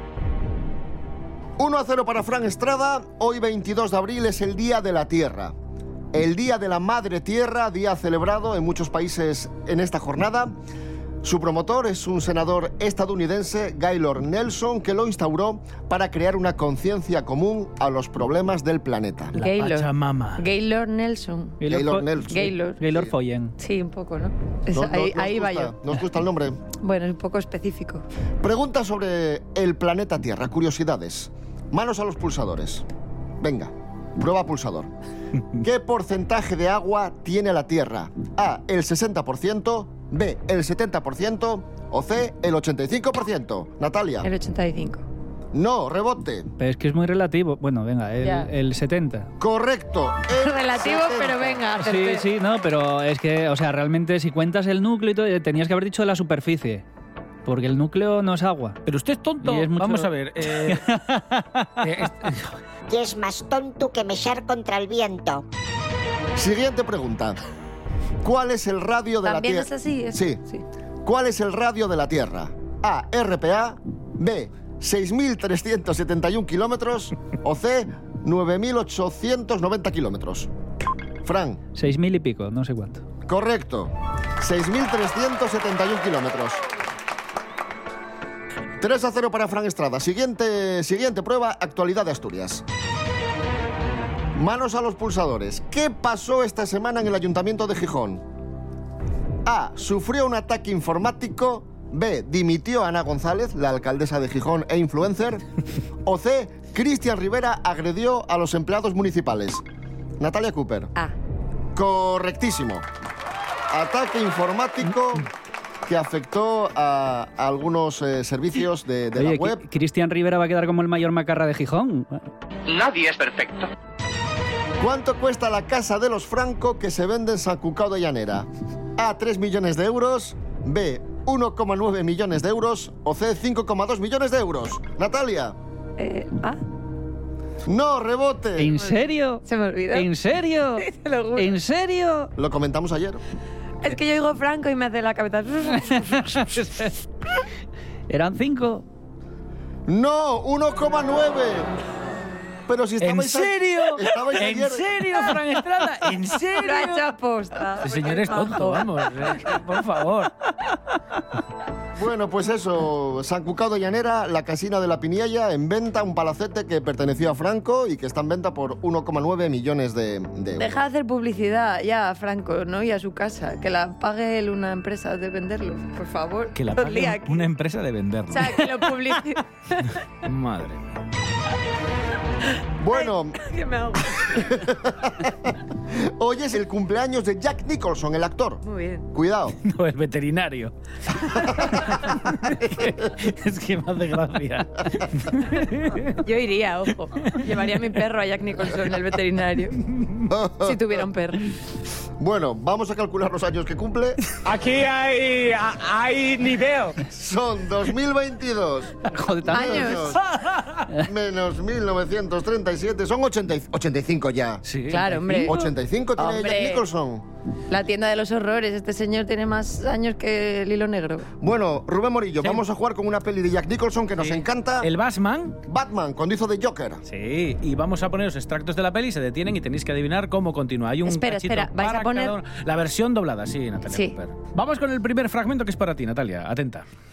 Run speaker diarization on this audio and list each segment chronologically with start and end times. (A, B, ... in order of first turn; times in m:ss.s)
0:01.6-0:05.5 A
0:06.1-0:10.6 A
0:11.2-0:19.4 A
0:19.4-0:21.6 B
0:19.4-0:20.4 C
0:21.6-0:23.6 D
0:21.7-0:23.1 A
0:22.3-0:22.8 B
0:23.6-0:25.8 B
0:24.7-0:26.6 A
0:26.8-0:28.0 B
0:28.4-0:32.8 A
0:33.4-0:34.9 A
0:35.6-0:44.3 A
0:44.2-0:45.0 B
0:45.5-0:46.5 A
0:46.6-0:49.3 D
0:48.2-0:48.5 B
0:49.4-0:51.7 A
0:50.4-0:52.3 B
0:51.8-0:56.8 D
0:57.5-0:58.8 D
0:58.9-1:00.9 C
0:59.4-1:02.0 D
1:01.8-1:02.6 C
1:02.9-1:05.4 E
1:06.4-1:07.4 A
1:08.2-1:10.4 A
1:09.2-1:10.6 B
1:11.0-1:20.5 A
1:21.2-1:21.6 A
1:21.8-1:23.0 D
1:23.3-1:26.6 A
1:28.8-1:32.6 A
1:34.4-1:38.2 A
1:39.4-1:45.4 A
1:46.0-1:49.6 A
1:50.2-1:50.9 A
1:51.8-1:52.9 A
1:53.7-1:55.3 A
1:55.9-1:59.6 A
1:59.2-2:02.3 D
2:04.8-2:15.6 A
2:16.0-2:16.6 B
2:17.6-2:18.8 A
2:18.6-2:22.3 D
2:18.8-2:20.1 B
2:20.8-2:21.6 B
2:22.4-2:23.2 A
2:23.8-2:26.5 B
2:26.1-2:26.9 D
2:28.1-2:28.8 D
2:29.9-2:31.7 A
2:32.7-2:35.0 A
2:33.0-2:37.1 C
2:36.6-2:39.4 B
2:37.8-2:40.3 C
2:42.0-2:50.9 A
2:50.6-2:57.5 B
2:56.6-2:59.0 C
2:58.3-3:00.0 B
3:00.2-3:00.9 C
3:02.5-3:04.6 B
3:02.8-3:03.4 A
3:04.3-3:09.6 A
3:08.6-3:09.0 B
3:09.6-3:16.2 C
3:16.2-3:19.8 B
3:17.2-3:17.8 C
3:20.3-3:21.0 A
3:20.6-3:21.5 B
3:22.2-3:24.2 A
3:24.4-3:27.0 C
3:27.1-3:30.2 A
3:29.1-3:30.0 D
3:29.5-3:30.2 B
3:30.3-3:30.8 C
3:31.0-3:34.6 A
3:34.7-3:35.2 C
3:34.9-3:35.6 B
3:35.1-3:35.5 D
3:35.4-3:37.2 A
3:36.2-3:36.8 B
3:37.7-3:41.3 B
3:41.4-3:44.9 A
3:44.2-3:45.6 C
3:45.7-3:47.0 A
3:47.1-3:56.8 C
3:51.0-3:52.4 B
3:53.9-3:54.1 B